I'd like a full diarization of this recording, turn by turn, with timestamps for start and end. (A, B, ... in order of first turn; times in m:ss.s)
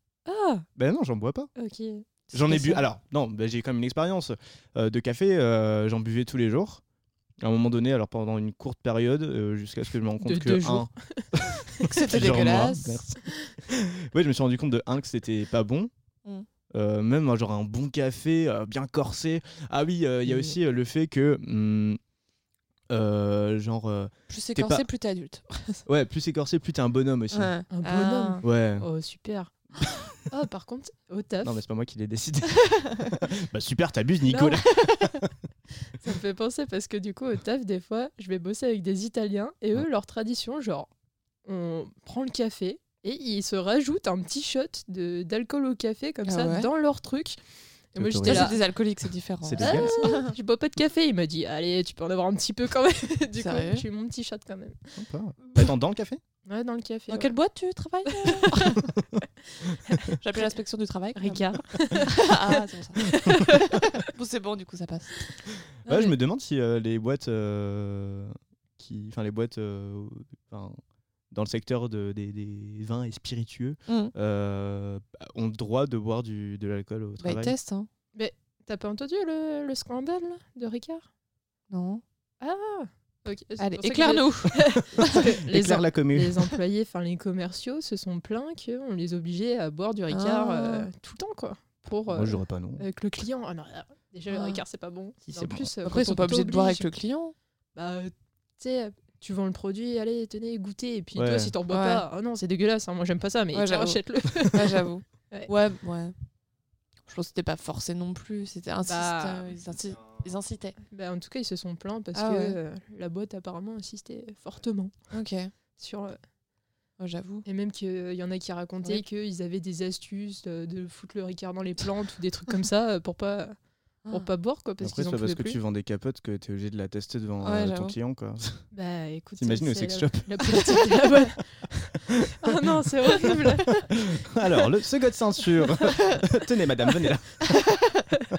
0:00.3-0:00.7 A
0:00.8-0:01.5 B
0:01.6-0:02.8 A
0:02.3-0:06.8 B
0:07.4-0:15.9 B
0:10.2-0:12.0 A
0:11.9-0:13.0 C
0:16.7-0:22.0 B
0:20.3-0:20.6 A
0:22.9-0:24.8 B
0:24.3-0:25.8 C
0:25.9-0:27.6 B
0:27.3-0:28.4 C
0:27.7-0:31.6 A
0:28.4-0:28.9 B
0:31.4-0:35.3 B
0:32.6-0:33.0 C
0:34.3-0:35.2 C
0:36.0-0:40.9 A
0:41.4-0:47.4 A
0:46.2-0:46.7 C
0:47.9-0:48.6 A
0:48.0-0:48.5 B
0:48.2-0:50.3 C
0:49.4-0:50.1 B
0:49.6-0:55.7 A
0:53.4-0:53.8 C
0:55.0-0:56.2 B
0:56.4-0:57.3 A
0:57.1-0:58.8 C
0:58.1-0:58.8 A
0:58.8-1:00.0 B
0:59.9-1:00.1 A
1:00.2-1:03.2 C
1:01.2-1:04.0 A
1:04.0-1:05.3 C
1:05.9-1:10.8 B
1:11.3-1:17.5 B
1:13.9-1:14.1 C
1:17.2-1:17.9 C
1:18.2-1:21.1 A
1:21.7-1:22.0 C
1:22.4-1:36.9 A
1:23.6-1:25.2 C
1:25.0-1:26.4 B
1:30.1-1:30.9 C
1:32.1-1:32.8 B
1:34.3-1:34.6 C
1:35.3-1:35.7 B
1:35.8-1:37.3 C
1:37.8-1:45.5 A
1:41.2-1:41.5 B
1:41.7-1:42.0 C
1:43.5-1:46.1 C
1:47.1-1:50.8 C
1:48.9-1:49.5 A
1:50.9-1:55.0 A
1:52.2-1:52.6 C
1:55.1-1:55.5 C
1:55.8-1:56.2 A
1:57.0-1:57.4 C
1:57.4-2:03.6 A
2:04.1-2:05.6 A
2:04.8-2:08.6 B
2:07.4-2:08.0 C
2:08.7-2:14.0 A
2:09.4-2:10.8 B
2:13.2-2:17.7 B
2:17.7-2:18.0 C